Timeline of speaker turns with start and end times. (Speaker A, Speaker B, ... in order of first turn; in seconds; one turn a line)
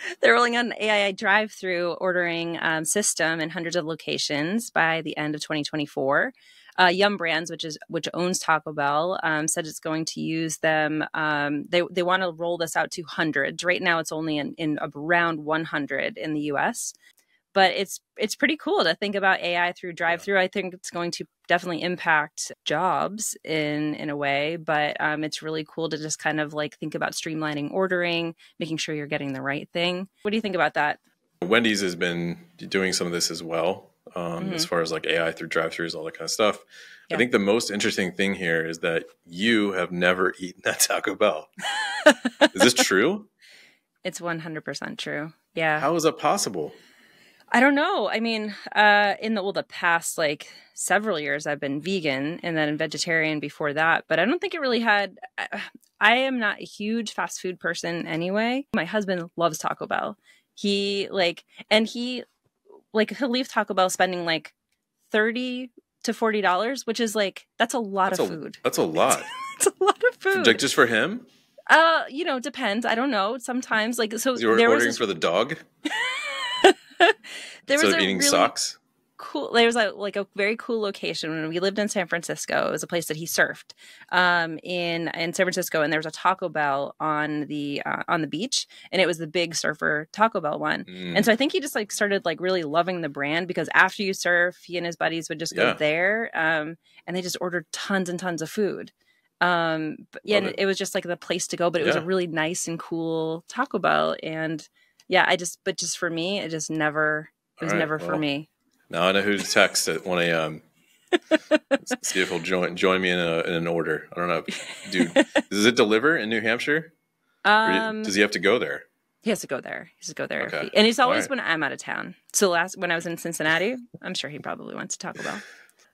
Speaker A: 0.2-16.9
Speaker A: 17.5-31.0
Speaker B: 31.4-41.5
Speaker A: 34.4-34.7
Speaker A: 41.8-42.5
Speaker B: 42.5-43.3
Speaker A: 44.0-45.9
Speaker B: 45.8-46.8
Speaker A: 47.5-62.2
Speaker A: 62.9-64.5
Speaker A: 65.1-70.6
Speaker B: 68.0-69.3
Speaker B: 70.3-71.3
Speaker A: 71.7-75.0
Speaker B: 74.3-75.6
Speaker A: 75.9-78.5
Speaker B: 77.7-78.8
Speaker A: 79.2-108.5
Speaker B: 90.9-91.3
Speaker B: 95.5-95.8
Speaker B: 100.3-100.5
Speaker B: 101.8-102.0
Speaker B: 107.6-108.2
Speaker B: 108.9-110.6
Speaker B: 111.8-116.9
Speaker A: 115.0-115.4
Speaker A: 117.4-118.1
Speaker B: 117.6-118.8
Speaker A: 119.2-125.4
Speaker B: 120.4-121.3